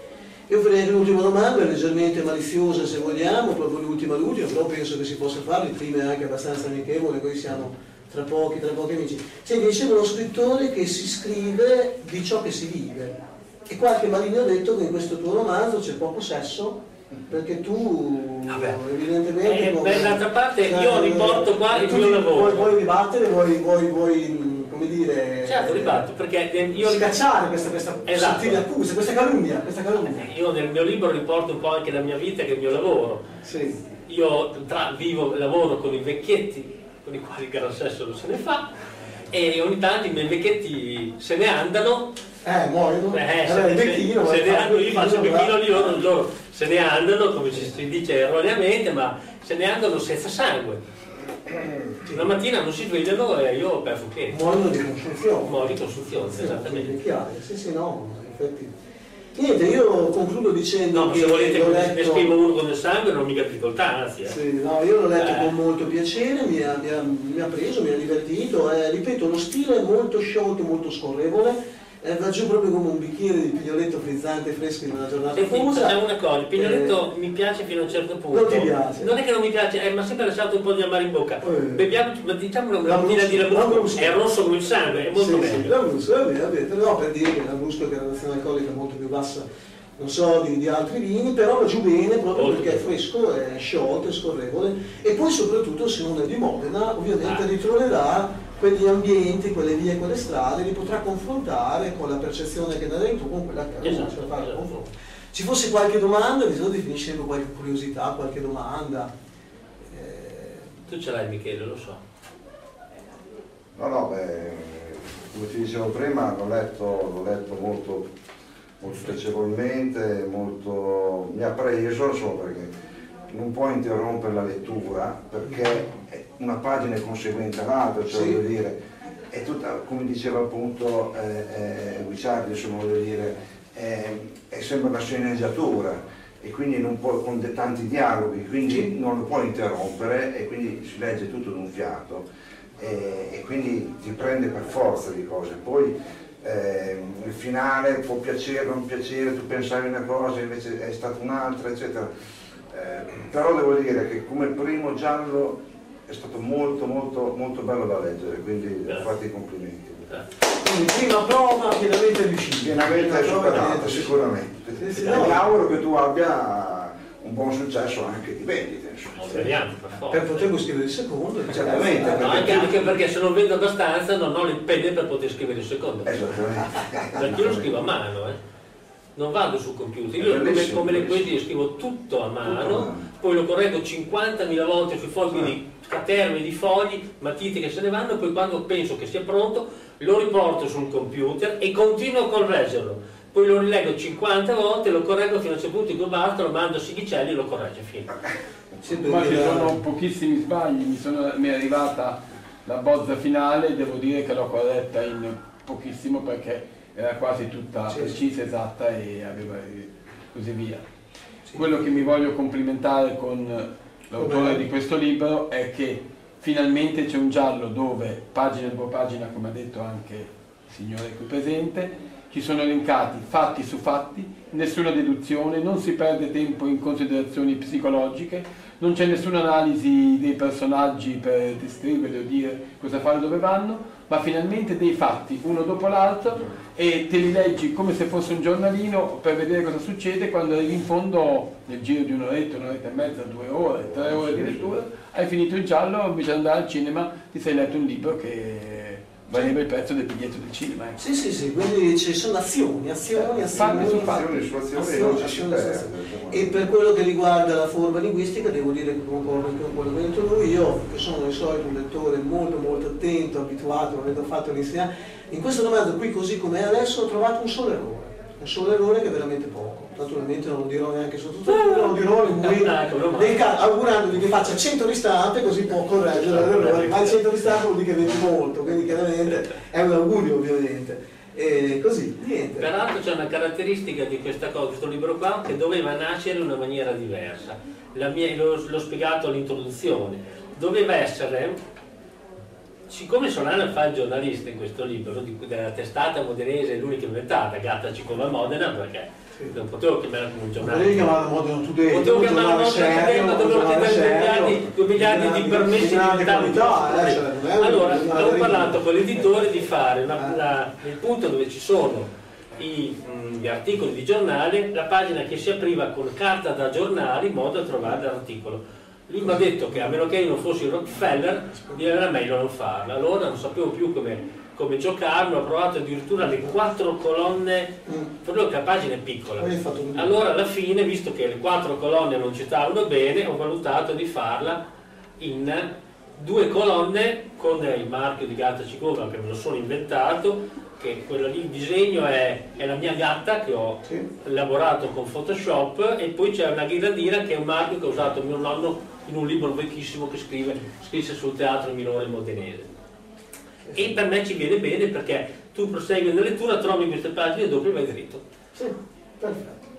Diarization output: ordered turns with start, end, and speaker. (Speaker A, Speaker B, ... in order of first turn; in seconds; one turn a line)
Speaker A: 0.5-13.2
Speaker A: 13.7-26.1
Speaker B: 18.5-18.8
Speaker B: 19.4-22.7
Speaker B: 25.4-27.1
Speaker A: 26.7-30.2
Speaker B: 28.0-28.6
Speaker B: 30.0-33.3
Speaker A: 33.4-33.8
Speaker B: 34.1-38.7
Speaker B: 39.3-42.1
Speaker A: 42.4-46.0
Speaker B: 43.1-50.8
Speaker A: 52.0-52.3
Speaker B: 52.1-54.4
Speaker A: 54.3-58.7
Speaker B: 55.5-57.0
Speaker A: 59.3-62.3
Speaker B: 60.9-64.4
Speaker A: 64.2-76.0
Speaker B: 65.2-65.5
Speaker B: 75.3-85.7
Speaker A: 76.5-77.0
Speaker A: 78.3-79.1
Speaker A: 81.4-81.8
Speaker A: 82.8-84.2
Speaker A: 85.1-89.4
Speaker A: 90.0-109.1
Speaker B: 92.3-92.9
Speaker B: 103.8-104.8
Speaker A: 109.8-110.7
Speaker B: 110.9-112.0
Speaker C: 113.8-118.1
Speaker C: 118.8-122.7
Speaker C: 123.3-128.8
Speaker A: 128.1-128.4
Speaker C: 129.3-142.2
Speaker C: 142.8-152.1
Speaker C: 152.7-160.1
Speaker A: 160.5-164.3
Speaker C: 162.6-169.4
Speaker A: 164.8-165.5
Speaker B: 164.9-165.3
Speaker B: 169.1-170.5
Speaker A: 170.1-172.9
Speaker C: 171.5-173.0
Speaker B: 171.8-176.3
Speaker C: 176.1-177.8
Speaker B: 177.1-178.4
Speaker B: 179.2-198.1
Speaker C: 180.2-181.3
Speaker C: 182.4-183.0
Speaker A: 198.8-199.8
Speaker D: 198.9-210.8
Speaker A: 207.9-208.1
Speaker D: 211.5-251.0
Speaker A: 214.2-214.6
Speaker C: 244.0-244.7
Speaker A: 251.0-282.7
Speaker D: 253.2-254.3
Speaker C: 253.5-256.6
Speaker B: 271.5-273.5
Speaker B: 276.1-277.2
Speaker B: 282.6-291.6
Speaker B: 292.9-301.2
Speaker A: 300.6-308.8
Speaker B: 301.9-334.6
Speaker A: 329.4-330.1
Speaker B: 335.2-352.7
Speaker A: 353.7-353.9
Speaker B: 353.7-358.2
Speaker A: 358.5-359.7